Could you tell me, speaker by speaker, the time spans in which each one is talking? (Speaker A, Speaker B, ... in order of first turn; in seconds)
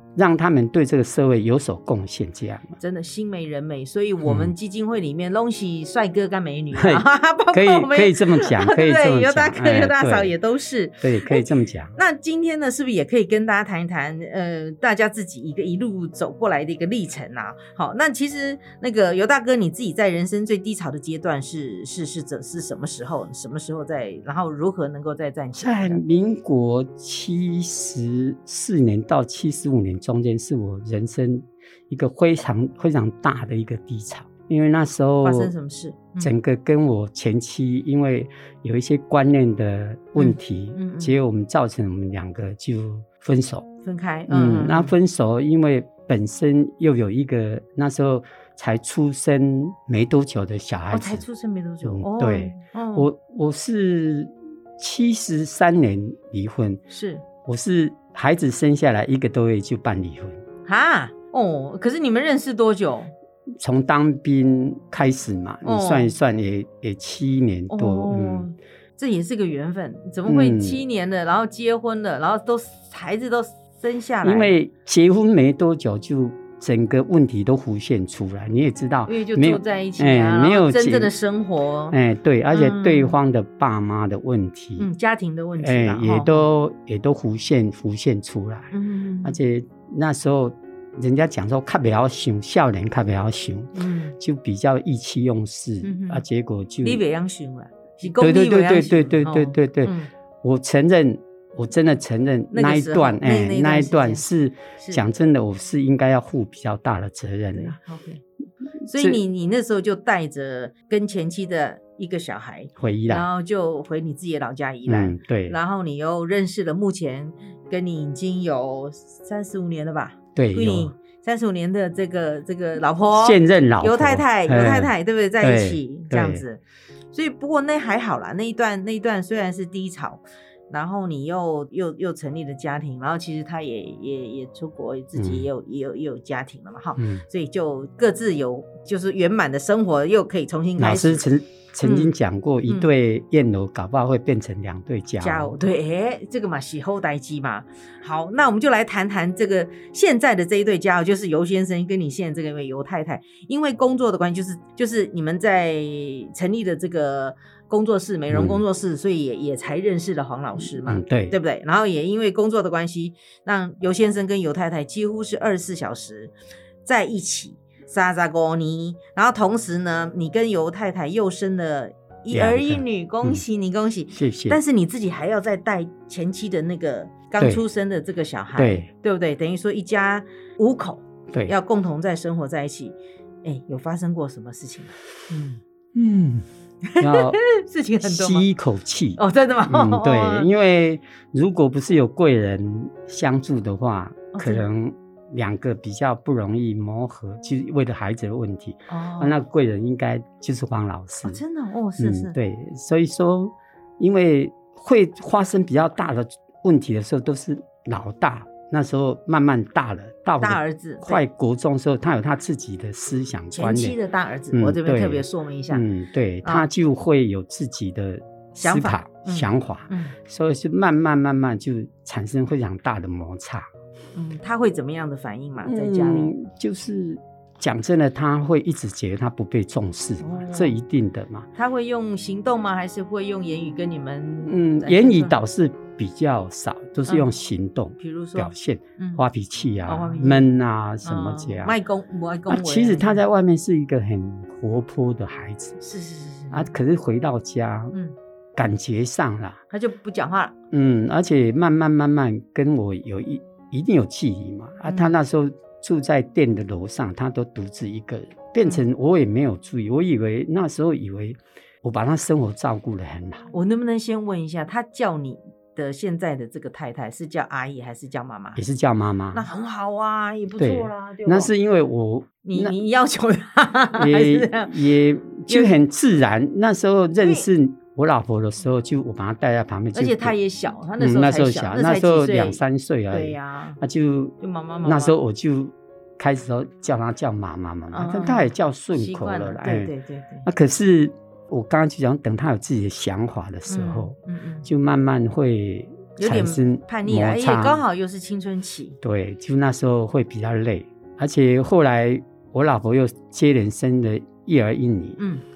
Speaker A: 0.1-2.8, 4.2-4.5, 6.7-10.3, 11.0-11.9, 25.6-35.5, 36.2-43.7, 44.3-51.2, 51.8-56.8, 57.4-60.4, 63.6-68.5, 70.3-70.8, 74.2-81.1, 81.9-84.9, 85.6-88.7, 89.2-97.0, 98.1-107.8, 108.9-109.2, 112.8-113.2, 114.9-115.5, 120.3-120.9, 123.1-126.4, 135.2-135.4, 137.0-137.2, 140.8-145.6, 158.3-158.6, 160.8-161.3, 172.3-173.4, 174.1-174.6, 178.6-178.9, 185.9-186.4, 187.0-187.4, 188.0-201.4, 202.0-214.0, 214.5-223.7, 225.6-231.5, 234.4-241.8, 242.5-245.8, 246.5-247.9, 248.6-249.6, 250.7-263.5, 268.6-269.4, 270.6-272.7, 273.9-280.3, 281.0-289.9, 290.4-297.8, 299.0-305.2
Speaker B: 2.8-26.0, 35.2-36.3, 40.2-41.1, 43.8-44.9, 50.9-53.1, 56.9-57.2, 60.6-63.1, 65.6-66.1, 67.7-74.5, 79.1-82.0, 82.5-83.2, 84.8-86.5, 88.7-89.4, 93.7-94.2, 95.8-96.2, 96.8-100.1, 102.5-104.2, 104.8-105.0, 107.5-108.2, 108.9-126.6, 127.1-141.2, 141.8-142.1, 145.2-166.3, 166.8-185.6, 186.8-188.4, 189.2-190.5, 194.3-194.7, 198.9-199.3, 201.2-202.3, 210.4-211.2, 213.5-215.8, 218.6-220.2, 224.1-226.3, 230.2-230.8, 231.6-235.3, 238.0-239.2, 239.9-240.5, 241.0-243.2, 245.8-246.7, 249.7-250.5, 254.8-255.1, 263.5-268.6, 269.3-271.5, 272.4-274.7, 275.5-275.8, 277.2-277.5, 279.9-283.8, 284.4-285.1, 287.9-290.4, 293.7-294.7, 296.2-299.0, 305.2-305.4